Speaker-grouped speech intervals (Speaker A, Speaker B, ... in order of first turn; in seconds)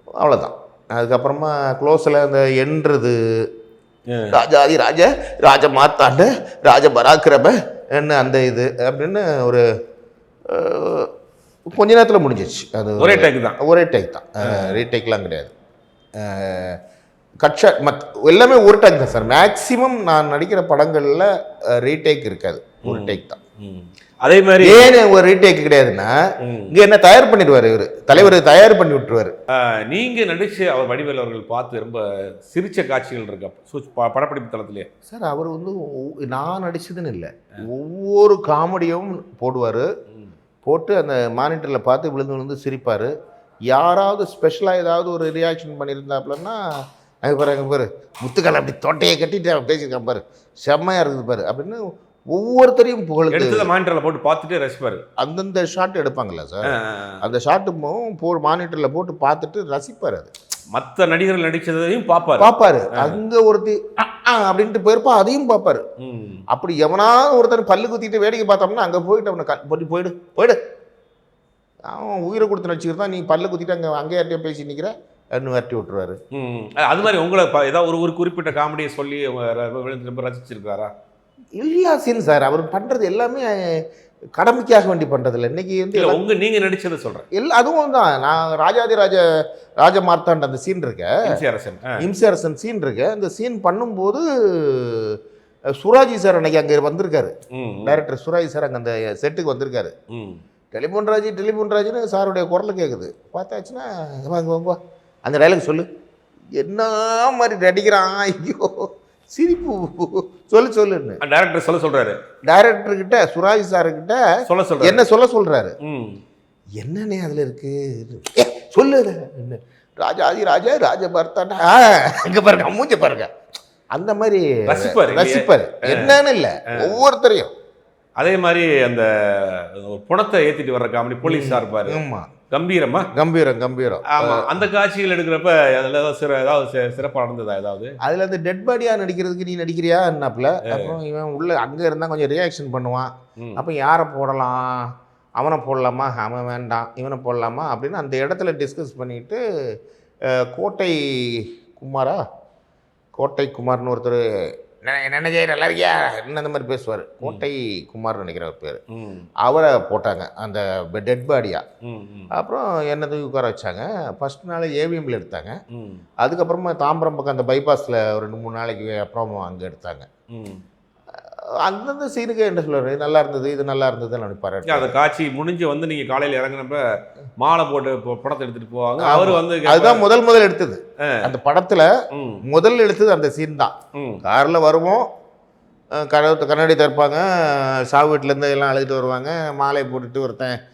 Speaker A: 0.2-3.5, 4.3-9.6, 10.5-11.1, 11.7-15.5, 16.2-16.8, 17.4-23.4, 24.6-26.1, 26.7-29.3, 35.1-39.9, 40.6-43.1, 43.7-53.7, 55.2-60.3, 62.4-65.8, 66.5-70.6, 71.9-76.2, 81.6-86.2, 87.3-91.4, 92.0-95.2, 95.8-97.3, 97.8-99.9, 100.7-105.8, 106.6-111.2, 112.5-114.2, 114.8-115.8, 116.8-123.3, 123.9-127.5, 131.2-132.3, 133.1-134.6, 138.0-149.4, 150.3-152.2, 153.2-158.8, 159.4-161.6, 162.3-165.5, 166.2-170.1, 171.6-174.9, 179.0-181.9, 182.4-183.7, 184.2-185.1, 185.9-190.6
Speaker B: 4.1-4.3, 13.0-13.6, 14.4-14.8, 22.8-24.9, 26.4-26.7, 29.5-34.9, 53.3-55.0, 56.6-57.2, 60.7-63.2, 66.0-66.4, 76.3-80.9, 85.9-87.2, 91.2-92.0, 97.5-98.0, 100.1-100.4, 111.2-112.2, 114.5-115.0, 115.8-116.2, 124.7-126.2, 128.2-132.0, 132.5-133.1, 134.1-137.9, 140.7-140.9, 158.9-159.2, 161.8-162.3, 165.7-166.0, 170.3-170.6, 174.7-180.0, 182.1-182.4, 183.9-184.2